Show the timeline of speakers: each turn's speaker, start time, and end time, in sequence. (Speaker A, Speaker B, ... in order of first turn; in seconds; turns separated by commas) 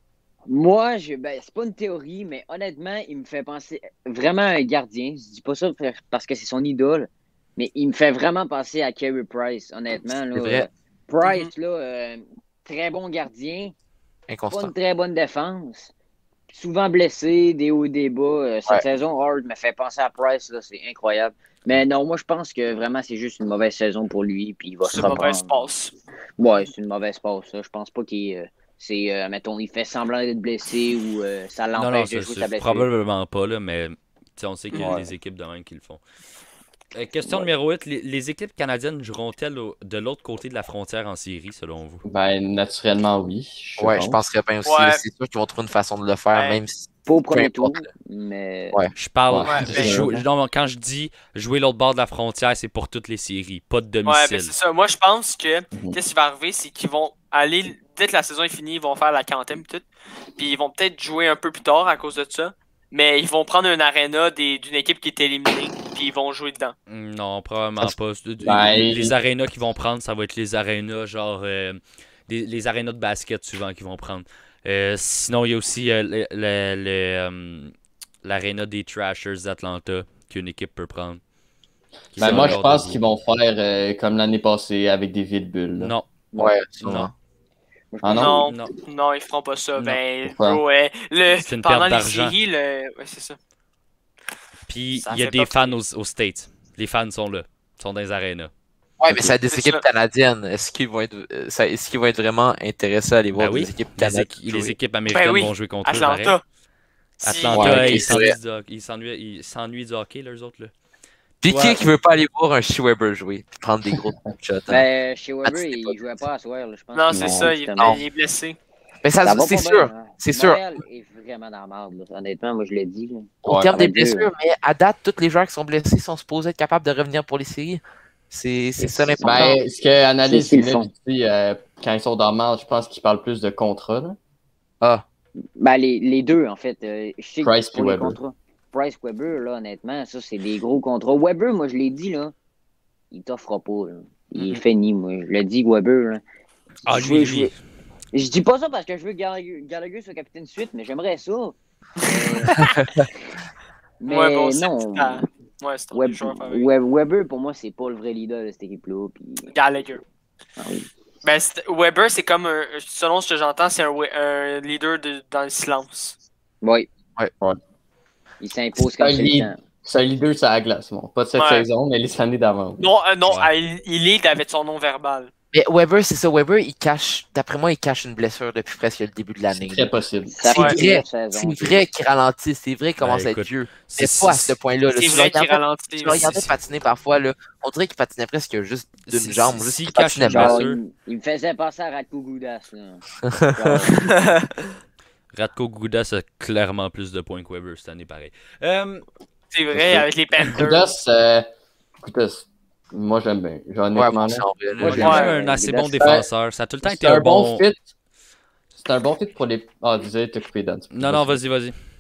Speaker A: 0.5-13.7, Speaker B: 10.3-10.7, Speaker C: 11.2-11.5, Speaker B: 14.3-14.7, Speaker A: 14.5-15.9, Speaker A: 16.5-25.7, Speaker C: 24.9-25.9, Speaker A: 26.4-32.9, Speaker D: 31.8-36.0, Speaker C: 34.7-35.0, Speaker E: 34.8-35.1, Speaker D: 36.9-42.0, Speaker E: 42.1-44.2, Speaker B: 43.8-47.9, Speaker C: 44.6-45.0, Speaker C: 46.3-46.6, Speaker A: 47.1-48.8, Speaker D: 49.0-54.5, Speaker E: 49.3-50.2, Speaker C: 49.5-50.0, Speaker C: 54.1-59.9, Speaker C: 60.4-66.8, Speaker D: 66.9-77.7, Speaker E: 67.8-69.1, Speaker D: 78.2-81.2, Speaker D: 82.1-83.0, Speaker E: 82.2-85.9, Speaker B: 82.2-82.6, Speaker D: 85.8-86.1, Speaker B: 86.4-87.1, Speaker D: 86.8-87.1, Speaker A: 87.9-88.4, Speaker E: 88.0-88.5, Speaker C: 88.2-93.4, Speaker D: 88.4-88.7, Speaker E: 90.3-90.6, Speaker D: 91.3-92.3, Speaker D: 94.7-98.5, Speaker C: 95.0-95.8, Speaker B: 99.0-104.8, Speaker C: 99.5-99.8, Speaker D: 103.4-106.4, Speaker C: 105.1-106.4, Speaker C: 107.2-108.1, Speaker D: 107.2-110.7, Speaker B: 107.5-108.4, Speaker E: 107.6-107.8, Speaker B: 111.4-114.8, Speaker D: 111.5-111.8, Speaker A: 114.7-118.0, Speaker B: 115.5-116.0, Speaker C: 117.0-118.6, Speaker E: 117.1-117.5, Speaker B: 119.0-120.6, Speaker A: 119.2-124.3, Speaker B: 123.5-129.5, Speaker E: 123.5-123.7, Speaker A: 128.8-129.6, Speaker E: 129.2-134.2, Speaker A: 130.2-130.9, Speaker A: 135.6-142.3, Speaker E: 137.4-138.2, Speaker A: 143.1-146.2, Speaker D: 146.8-147.6, Speaker A: 146.9-147.5, Speaker A: 148.1-152.7, Speaker C: 152.0-152.7, Speaker B: 152.6-153.1, Speaker A: 154.0-155.3, Speaker C: 154.1-156.7, Speaker A: 155.9-159.5, Speaker C: 159.5-160.0, Speaker A: 160.6-160.9, Speaker C: 161.2-166.2, Speaker A: 166.6-166.9, Speaker A: 168.4-169.6, Speaker E: 168.8-172.8, Speaker C: 171.4-171.7, Speaker C: 172.8-175.3, Speaker D: 173.3-173.5, Speaker B: 175.5-179.9, Speaker E: 179.5-180.6, Speaker A: 180.3-181.8, Speaker B: 180.5-190.6, Speaker D: 183.0-184.6, Speaker C: 184.9-186.4, Speaker D: 186.1-186.4, Speaker D: 189.1-190.8, Speaker A: 190.3-193.0, Speaker B: 193.3-193.9, Speaker A: 193.6-194.2, Speaker C: 194.0-194.5, Speaker D: 195.3-199.1, Speaker C: 199.5-200.9, Speaker E: 199.7-201.5, Speaker E: 202.0-205.3, Speaker B: 203.9-205.1, Speaker A: 204.8-206.1, Speaker D: 204.8-207.6, Speaker C: 204.9-205.3, Speaker E: 206.0-206.3, Speaker E: 206.8-207.9, Speaker E: 208.8-211.4, Speaker D: 210.9-211.8